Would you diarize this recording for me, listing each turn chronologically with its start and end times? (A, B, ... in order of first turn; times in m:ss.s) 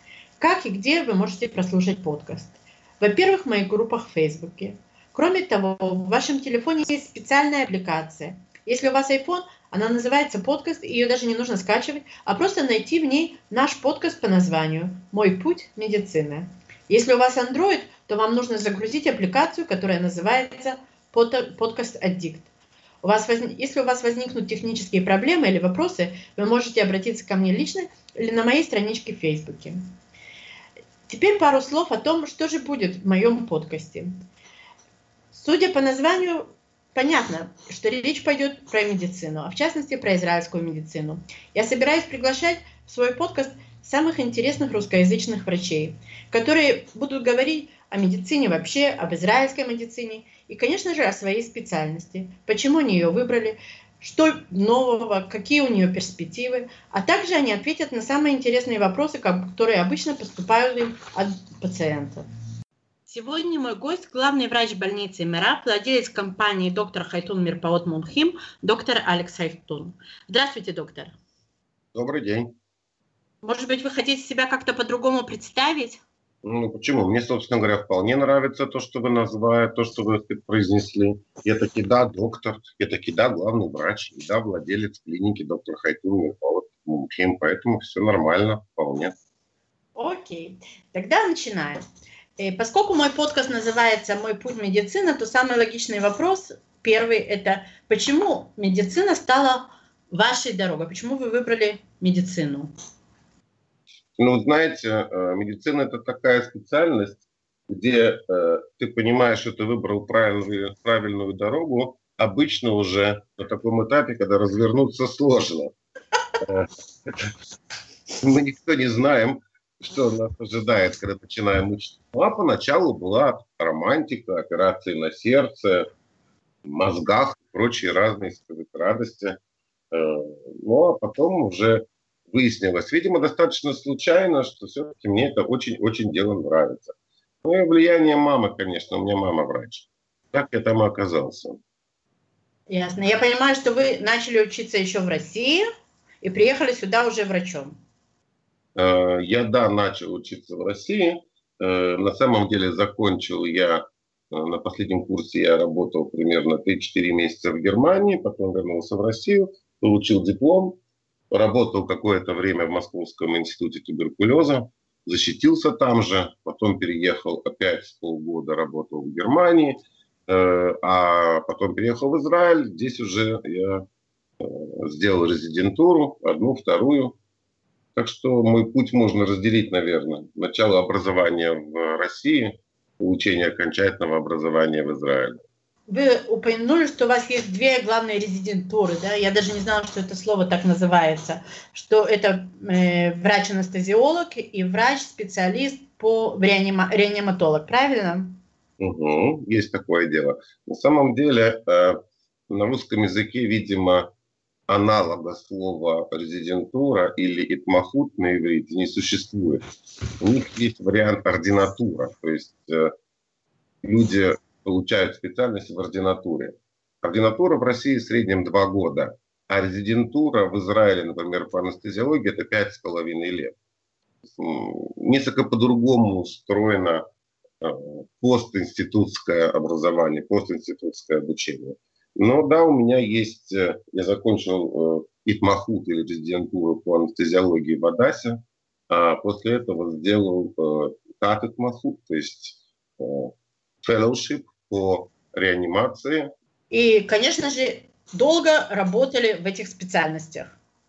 0:00.4-0:22.5 A
0:23.0-0:29.8 A
0:31.1-0:34.1 A
0:35.3-1:02.2 A
1:03.1-1:11.2 A
1:11.9-1:12.5 B
1:13.4-1:16.0 A
1:16.4-1:29.1 B
1:30.0-1:31.8 A
1:32.4-1:42.7 A
1:44.2-1:55.7 B
1:56.4-1:57.3 B
1:58.2-2:05.9 B
2:06.6-2:09.4 B
2:09.9-2:21.6 B
2:22.7-2:25.7 A
2:26.2-2:27.8 A
2:28.8-2:40.8 B
2:41.3-2:53.9 B
2:54.4-2:57.2 B
2:58.0-3:05.4 B
3:05.9-3:18.4 A
3:18.8-3:24.1 B
3:24.7-3:29.6 B
3:30.2-3:32.9 B
3:33.8-3:43.6 B
3:44.2-3:47.0 B
3:47.6-4:06.3 B
4:06.7-4:10.6 A